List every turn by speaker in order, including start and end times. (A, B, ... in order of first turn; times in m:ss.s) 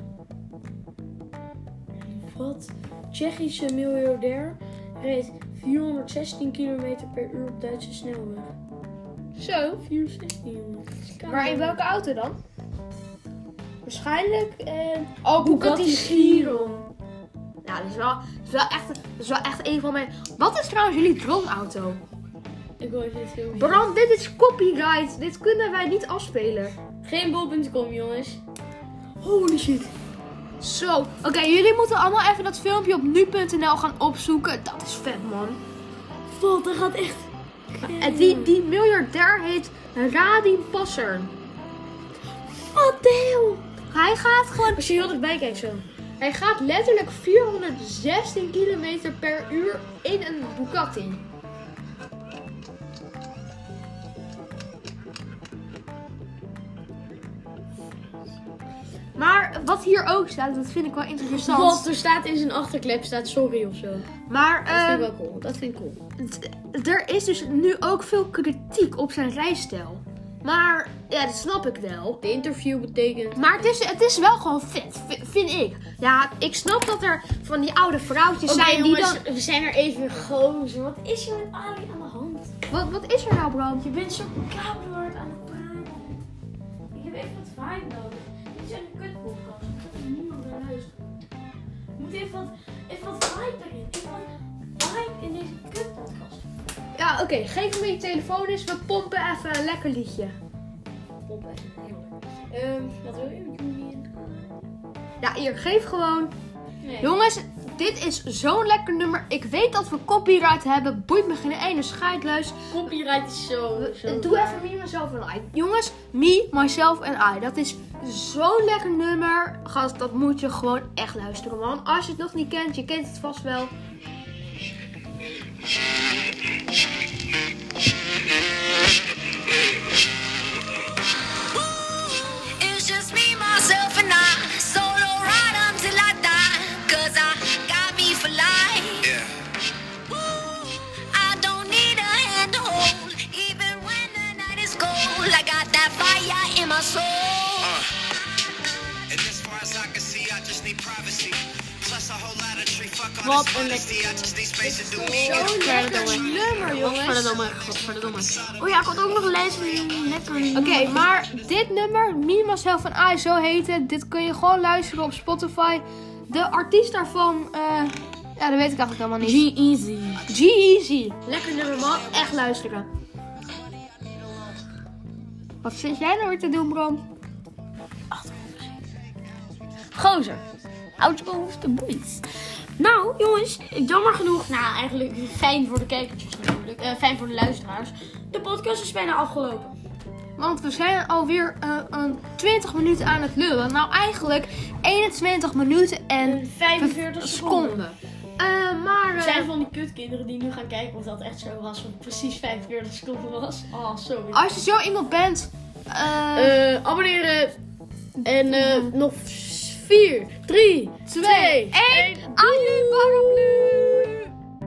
0:02.0-0:08.5 A
0:09.4-0:09.8 B
0:09.8-0:11.8 A
0:11.3-0:12.4 B
0:13.8-0:16.8 B
0:15.4-0:16.9 A
0:17.6-0:22.0 B
0:22.8-0:23.8 A
0:23.6-0:26.7 B
0:27.0-0:28.4 A
0:29.2-0:29.9 A
0:30.6-0:35.6 B
0:36.3-0:38.6 A
0:37.8-0:41.3 B
0:42.6-0:43.6 A
0:43.9-0:44.8 B
0:44.7-0:45.8 A
0:46.2-0:51.2 B
0:59.2-1:01.9 B
1:01.3-1:04.1 A
1:04.3-1:05.1 B
1:04.7-1:06.0 A
1:06.2-1:12.2 B
1:12.2-1:13.7 A
1:13.4-1:19.2 B
1:18.5-1:22.6 A
1:22.7-1:23.8 B
1:23.8-1:26.2 A
1:26.9-1:31.2 A
1:32.0-1:36.5 A
1:37.0-1:40.4 B
1:41.3-1:44.7 A
1:45.2-1:46.3 B
1:46.8-1:47.1 A
1:47.0-1:52.7 B
1:52.7-1:54.6 A
1:53.8-2:03.8 B
2:11.5-2:19.1 C
2:19.0-2:19.3 D
2:20.1-2:27.8 C
2:27.6-2:27.9 D
2:29.1-2:40.1 D
2:33.2-2:41.1 A
2:35.0-2:37.4 B
2:40.5-2:49.4 B
2:41.0-2:41.3 D
2:49.2-2:50.3 A
2:50.3-2:52.9 B
2:55.6-2:57.0 B
2:58.1-2:58.8 A
3:00.0-3:00.4 A
3:01.0-3:02.2 A
3:02.8-3:09.8 A
3:10.4-3:19.5 B
3:16.2-3:17.8 A
3:19.2-3:24.6 A
3:24.3-3:26.6 B
3:26.3-3:27.6 A
3:28.2-3:34.3 A
3:28.5-3:28.9 B
3:31.1-3:34.1 B